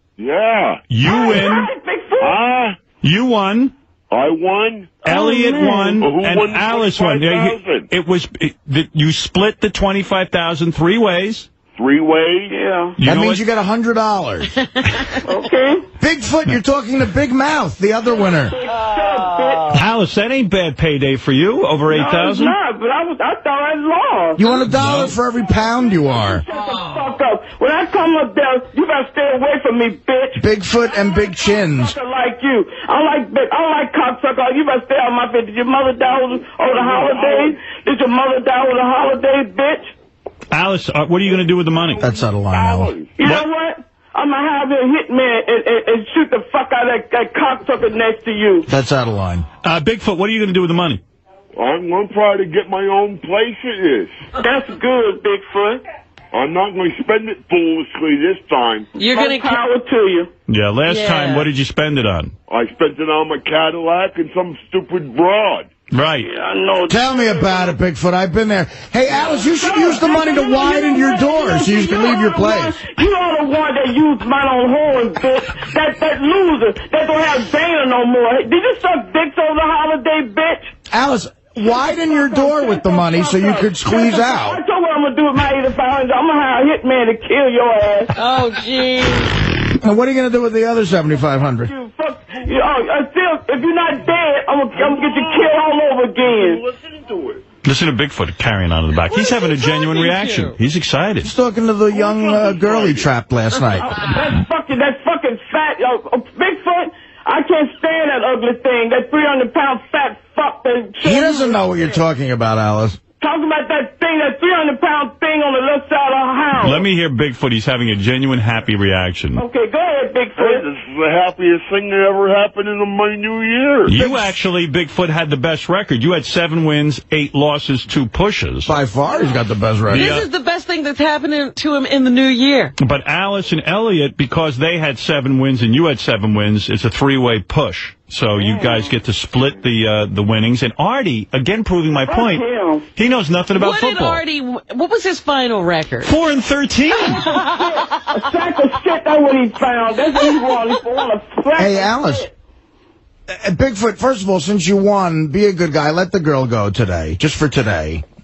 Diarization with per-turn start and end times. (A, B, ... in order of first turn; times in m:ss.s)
0:00.2-0:00.8 A
0:00.9-0:01.7 B
0:01.0-0:02.4 C
0:02.2-0:02.8 A
0:03.0-0:03.7 B
0:04.1-0:05.0 A
0:05.0-0:11.5 B
0:05.0-0:06.0 C
0:06.0-0:07.9 A
0:11.7-0:12.5 A
0:12.5-0:13.0 C
0:13.0-0:13.4 B
0:13.0-0:14.5 D
0:15.2-0:15.8 C
0:16.0-0:18.6 D
0:18.5-0:19.8 C
0:19.7-0:22.5 B
0:21.9-0:24.5 C
0:24.4-0:26.4 D
0:24.7-0:25.1 B
0:26.4-0:30.4 C
0:30.4-0:32.0 D
0:31.7-0:39.9 C
0:36.7-0:37.6 A
0:40.5-0:42.0 B
0:42.0-0:42.9 D
0:42.5-0:43.2 A
0:43.2-0:48.7 C
0:48.7-0:49.4 D
0:49.6-0:51.0 B
0:51.6-0:54.2 A
0:54.4-0:55.8 C
0:56.3-0:58.9 A
0:59.0-0:59.6 E
0:59.1-1:00.3 C
1:00.5-1:02.3 B
1:00.8-1:01.5 E
1:02.5-1:05.7 A
1:05.9-1:06.3 B
1:06.2-1:07.7 C
1:06.9-1:12.8 D
1:09.3-1:20.7 C
1:20.9-1:24.6 D
1:21.7-1:28.1 C
1:28.1-1:29.4 E
1:29.8-1:31.7 D
1:31.6-1:36.6 C
1:34.7-1:35.5 A
1:36.2-1:37.4 A
1:37.6-1:41.3 B
1:39.0-1:40.5 E
1:41.2-1:44.0 D
1:42.0-1:43.1 A
1:43.8-1:52.0 C
1:51.0-1:53.0 D
1:53.2-1:56.8 C
1:56.6-1:59.4 B
1:59.4-2:00.6 C
2:00.4-2:04.0 A
2:03.8-2:08.7 B
2:08.6-2:10.2 D
2:09.9-2:10.3 B
2:09.9-2:12.7 E
2:12.8-2:22.4 B
2:22.1-2:22.9 C
2:23.0-2:24.2 B
2:23.5-2:26.1 E
2:26.0-2:27.3 B
2:27.2-2:28.2 E
2:27.3-2:32.3 C
2:31.6-2:32.2 D
2:33.3-2:38.0 D